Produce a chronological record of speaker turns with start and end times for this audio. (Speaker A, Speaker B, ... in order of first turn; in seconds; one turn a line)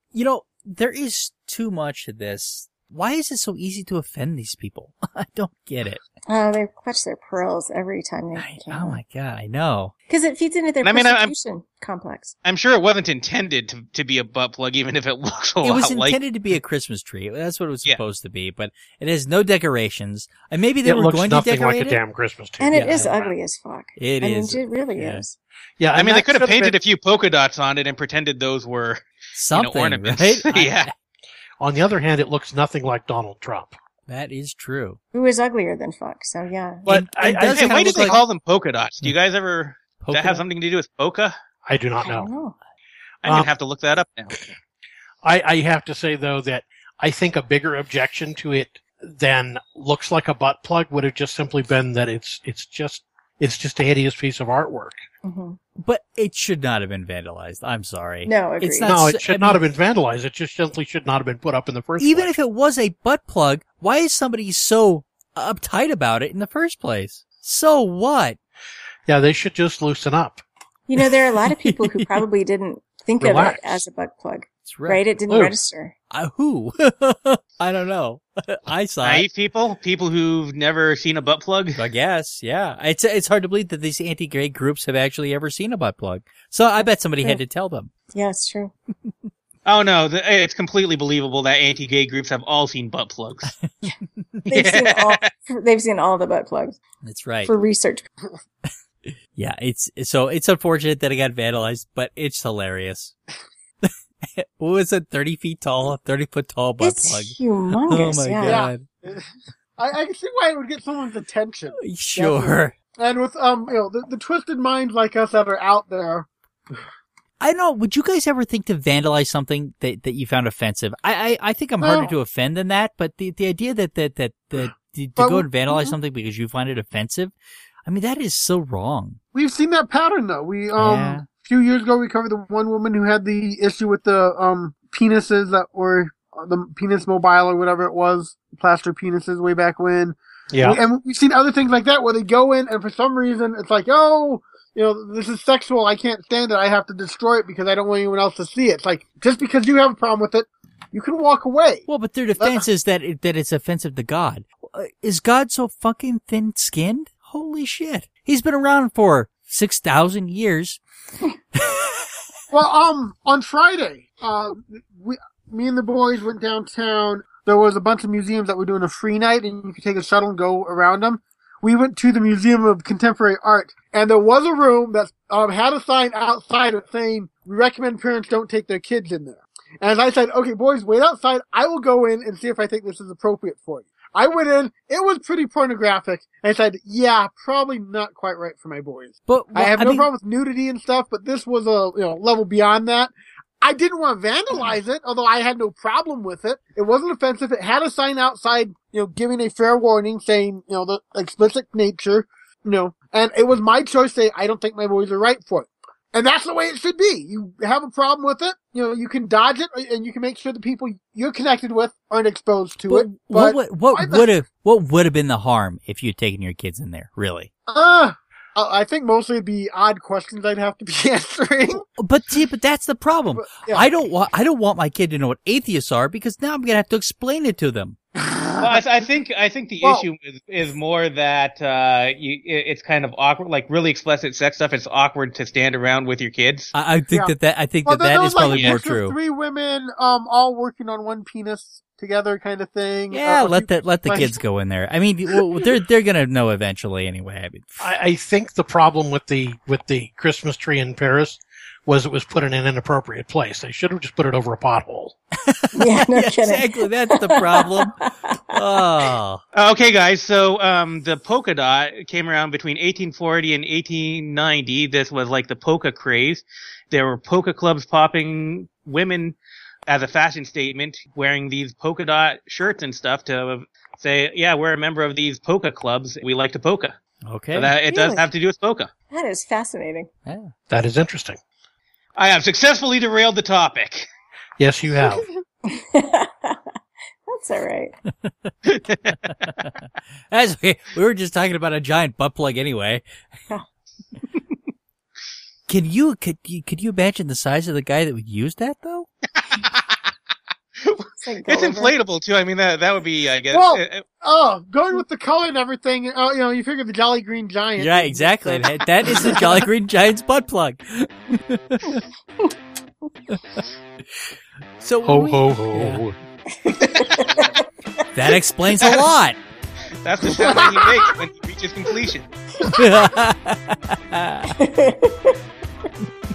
Speaker A: 0.1-6.0
Speaker B: 6.3-9.0
Speaker A: 8.4-9.9
Speaker B: 10.1-12.3
Speaker C: 10.8-11.3
Speaker C: 12.4-16.2
Speaker A: 15.6-22.0
Speaker D: 20.8-23.3
Speaker B: 22.6-25.4
Speaker A: 22.7-23.1
Speaker A: 24.0-25.2
Speaker D: 25.8-26.8
Speaker C: 25.9-30.9
Speaker A: 29.4-30.9
Speaker D: 31.6-33.8
Speaker A: 34.1-35.0
Speaker B: 35.1-36.9
Speaker D: 36.9-38.2
Speaker A: 36.9-38.2
Speaker C: 37.2-41.4
Speaker A: 40.0-40.4
Speaker D: 41.7-42.3
Speaker B: 42.0-42.5
Speaker C: 43.2-44.5
Speaker D: 45.2-55.0
Speaker B: 55.2-55.6
Speaker A: 55.8-59.6
Speaker B: 58.2-58.9
Speaker D: 58.9-62.3
Speaker A: 62.0-68.4
Speaker D: 69.1-70.4
Speaker B: 70.9-75.9
Speaker A: 71.4-72.2
Speaker D: 73.2-73.8
Speaker A: 74.7-75.0
Speaker D: 75.3-75.5
Speaker A: 76.1-79.3
Speaker C: 79.0-81.8
Speaker A: 81.8-87.9
Speaker B: 88.1-88.7
Speaker C: 89.7-93.5
Speaker A: 93.6-94.5
Speaker C: 94.5-95.3
Speaker B: 94.5-96.8
Speaker A: 97.0-97.5
Speaker B: 97.5-98.1
Speaker A: 99.1-103.1
Speaker A: 103.8-108.8
Speaker B: 106.8-108.7
Speaker E: 108.4-116.8
Speaker A: 111.8-112.7
Speaker A: 117.4-127.3
Speaker E: 121.8-122.1
Speaker E: 125.2-126.0
Speaker A: 127.9-129.2
Speaker E: 129.3-151.9
Speaker A: 130.8-131.3
Speaker D: 140.5-140.8
Speaker A: 151.9-160.8
Speaker E: 152.4-152.6
Speaker A: 161.6-161.8
Speaker E: 162.5-214.3
Speaker A: 189.3-190.1
Speaker A: 212.9-217.5
Speaker E: 217.7-221.8
Speaker A: 222.0-228.0
Speaker E: 223.3-223.9
Speaker E: 228.2-228.9
Speaker C: 228.6-236.7
Speaker A: 236.7-239.2
Speaker E: 237.8-244.4
Speaker C: 238.5-238.8
Speaker A: 243.1-247.9
Speaker E: 245.3-245.6
Speaker D: 247.8-255.2
Speaker A: 255.5-259.4
Speaker B: 255.8-258.1
Speaker C: 259.5-277.0
Speaker A: 277.3-277.7
Speaker C: 277.5-278.9
Speaker B: 277.9-278.2
Speaker B: 279.1-280.1
Speaker A: 280.3-280.5
Speaker D: 280.7-281.4
Speaker C: 282.2-284.1
Speaker D: 284.6-285.3
Speaker B: 285.7-286.6
Speaker B: 287.3-287.9
Speaker A: 288.2-288.5
Speaker C: 288.7-289.2
Speaker A: 289.1-289.8
Speaker A: 290.3-293.0
Speaker A: 295.7-299.1
Speaker C: 299.5-300.0
Speaker C: 300.8-304.0
Speaker B: 301.2-301.9
Speaker E: 303.5-309.6
Speaker A: 307.8-312.0
Speaker A: 314.8-316.0
Speaker D: 315.1-316.2
Speaker B: 316.6-317.6
Speaker C: 316.9-317.5
Speaker A: 318.1-319.4
Speaker C: 320.0-322.3
Speaker E: 320.4-321.1
Speaker A: 322.6-324.6
Speaker B: 324.5-325.4